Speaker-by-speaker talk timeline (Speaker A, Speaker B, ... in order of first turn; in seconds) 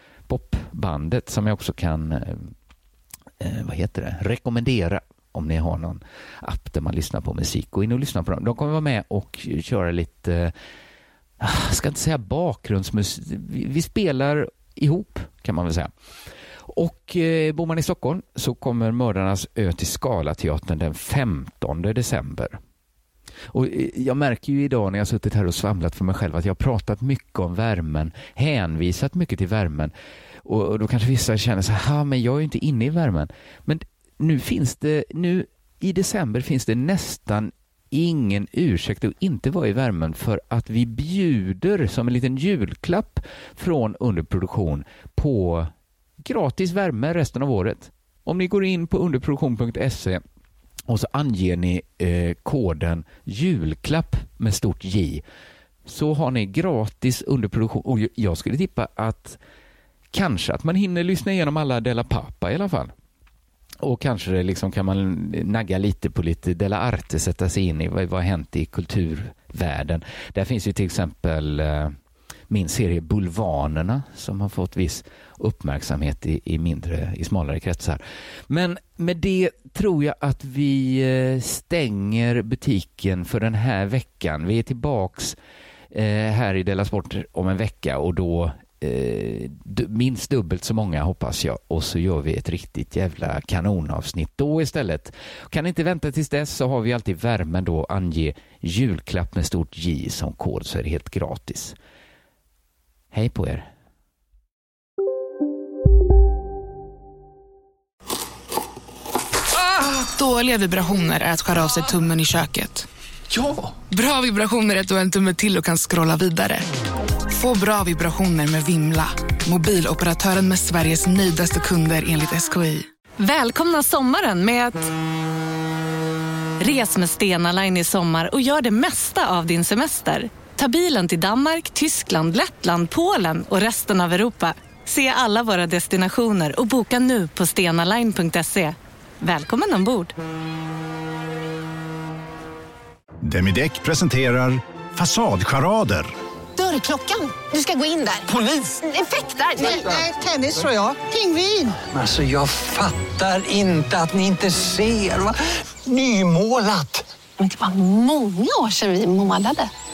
Speaker A: 0.3-2.5, 3.4-10.5, 11.4-15.9, 16.7-22.6, 23.5-29.9, 30.4-45.7, 46.2-50.2, 50.9-55.2, 55.9-59.4, 60.1-62.9, 63.8-71.9, 72.5-85.4, 85.9-101.8, 103.1-103.7
Speaker B: 109.6-112.9, 113.9-116.7, 117.3-122.9
Speaker C: 123.2-124.9, 126.6-140.1
Speaker D: 143.2-146.1
Speaker E: 146.6-151.8, 157.4-159.7
Speaker F: 151.8-157.1